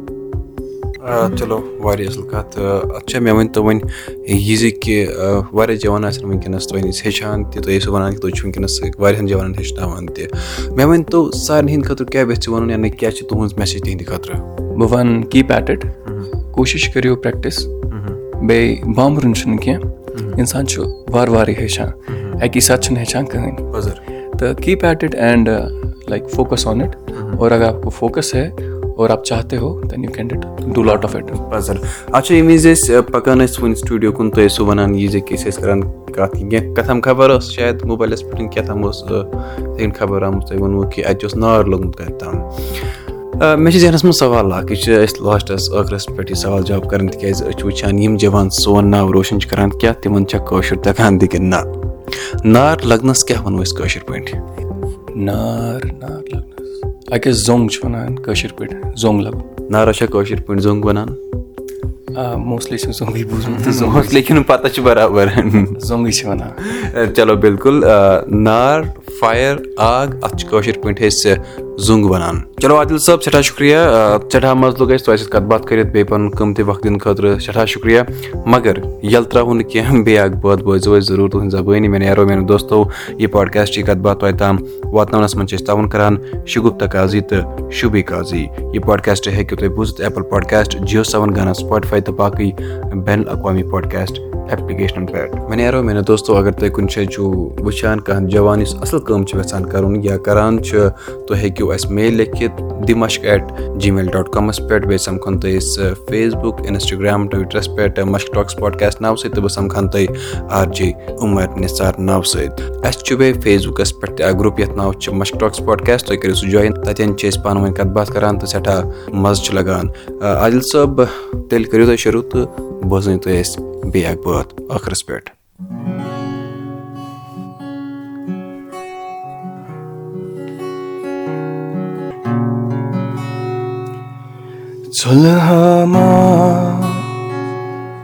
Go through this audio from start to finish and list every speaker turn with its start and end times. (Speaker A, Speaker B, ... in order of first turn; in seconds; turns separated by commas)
Speaker A: 1.0-14.4, Speaker B: 14.7-15.9, Speaker B: 16.5-17.8, Speaker A: 17.9-18.2, Speaker B: 18.4-23.7, Speaker A: 22.1-22.4, Speaker A: 23.7-24.0, Speaker B: 24.4-31.4, Speaker A: 30.8-42.5, Speaker A: 43.4-51.7, Speaker A: 52.4-54.4, Speaker B: 55.1-59.5, Speaker A: 59.7-61.2, Speaker B: 62.1-64.2, Speaker A: 63.5-65.8, Speaker B: 65.8-66.6, Speaker A: 66.6-125.3, Speaker B: 134.9-137.1